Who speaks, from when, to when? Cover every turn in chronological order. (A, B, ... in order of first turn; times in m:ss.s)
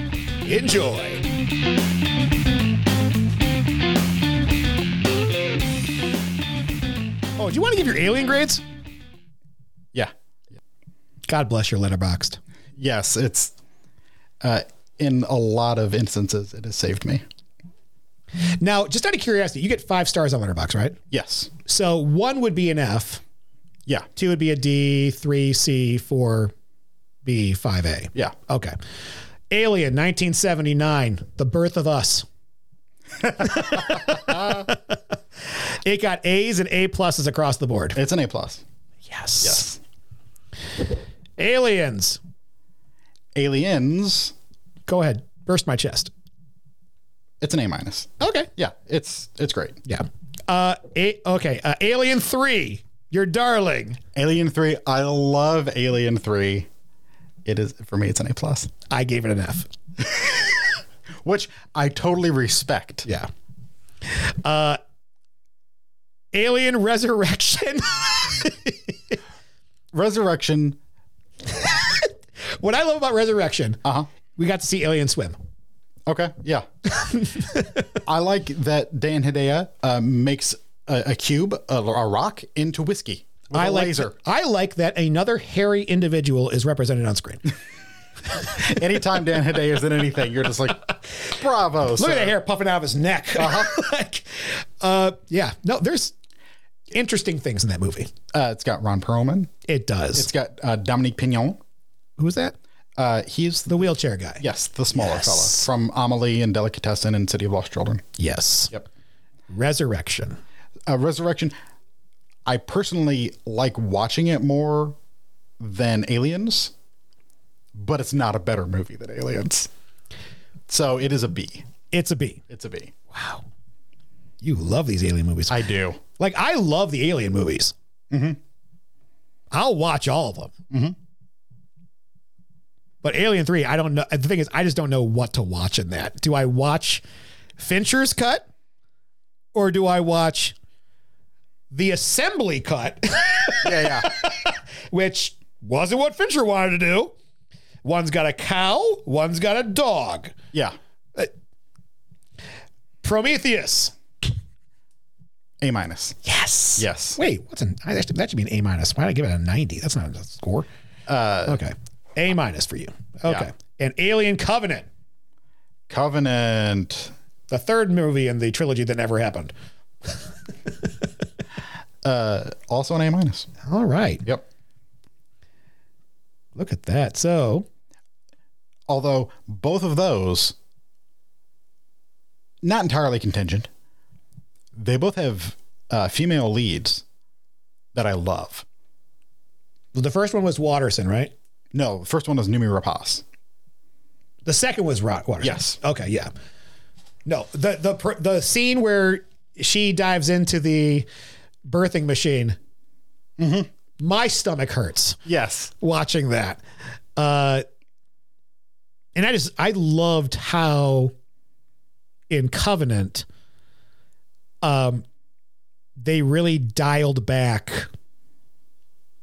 0:00.4-0:01.2 A
0:07.4-0:08.6 A
0:11.3-0:12.4 A
0:12.8-0:13.5 B
0:14.4-0:17.2 B
0:18.5-0:21.0 A
0:21.1-0:21.5 B
0:21.6-0:23.2 A
0:24.2-0:26.5 A
0:27.2-0:28.7 A
0:29.5-0:32.3 A
0:33.2-0:34.7 B
0:33.4-0:38.0 A
0:37.9-0:38.6 B
0:39.1-0:39.6 A
0:39.4-0:39.8 B
0:41.4-0:42.2 A
0:43.3-0:44.3 B
0:44.9-0:46.1 A
0:47.4-0:49.8 B
0:48.2-0:48.5 A
0:49.8-0:54.0 A
0:54.1-0:56.7 B
0:57.4-0:58.7 B
0:58.9-0:59.7 A
1:00.0-1:00.6 B
1:01.2-1:03.1 B
1:04.0-1:04.8 A
1:06.3-1:09.2 A
1:09.9-1:10.8 B
1:11.5-1:13.8 A
1:13.8-1:14.1 B
1:14.3-1:15.4 A
1:16.1-1:16.7 B
1:16.9-1:17.9 A
1:18.0-1:24.1 B
1:23.5-1:27.5 A
1:28.4-1:32.3 B
1:32.0-1:36.1 A
1:33.4-1:33.8 B
1:36.9-1:38.1 A
1:38.3-1:39.5 B
1:39.6-1:40.3 A
1:40.1-1:41.6 B
1:42.2-1:42.5 A
1:43.0-1:43.9 B
1:43.7-1:44.4 A
1:44.4-1:48.0 B
1:44.9-1:45.7 A
1:48.2-1:48.7 A
1:49.5-1:50.4 A
1:50.9-1:51.5 B
1:52.4-1:55.0 B
1:55.6-1:56.7 B
1:57.7-1:59.7 B
2:00.7-2:01.7 B
2:01.9-2:02.4 A
2:02.5-2:02.9 B
2:03.1-2:03.4 A
2:04.4-2:05.6 A
2:05.5-2:06.0 B
2:06.2-2:07.7 A
2:08.1-2:08.4 B
2:09.5-2:10.5 A
2:10.7-2:11.0 B
2:13.0-2:17.0 A
2:17.6-2:18.4 A
2:19.5-2:20.5 A
2:21.7-2:27.1 A
2:23.6-2:24.2 B
2:27.8-2:30.3 A
2:33.0-2:33.9 A
2:35.6-2:36.2 B
2:36.2-2:40.7 A
2:36.8-2:37.2 B
2:41.1-2:41.6 B
2:41.4-2:44.8 A
2:45.9-2:47.1 B
2:47.5-2:49.5 A
2:52.0-2:53.5 B
2:53.6-2:54.2 A
2:56.6-2:57.6 A
2:58.9-3:00.5 B
3:02.6-3:03.7 B
3:04.7-3:07.0 B
3:07.9-3:08.6 B
3:09.9-3:11.3 A
3:11.7-3:13.2 B
3:14.4-3:16.3 A
3:15.4-3:15.8 B
3:17.2-3:21.1 A
3:21.6-3:22.6 A
3:23.4-3:23.7 B
3:24.0-3:25.2 A
3:25.2-3:25.7 B
3:25.8-3:26.6 A
3:27.2-3:27.6 A
3:29.2-3:31.1 A
3:32.3-3:33.2 A
3:34.6-3:35.0 A
3:36.0-3:37.9 A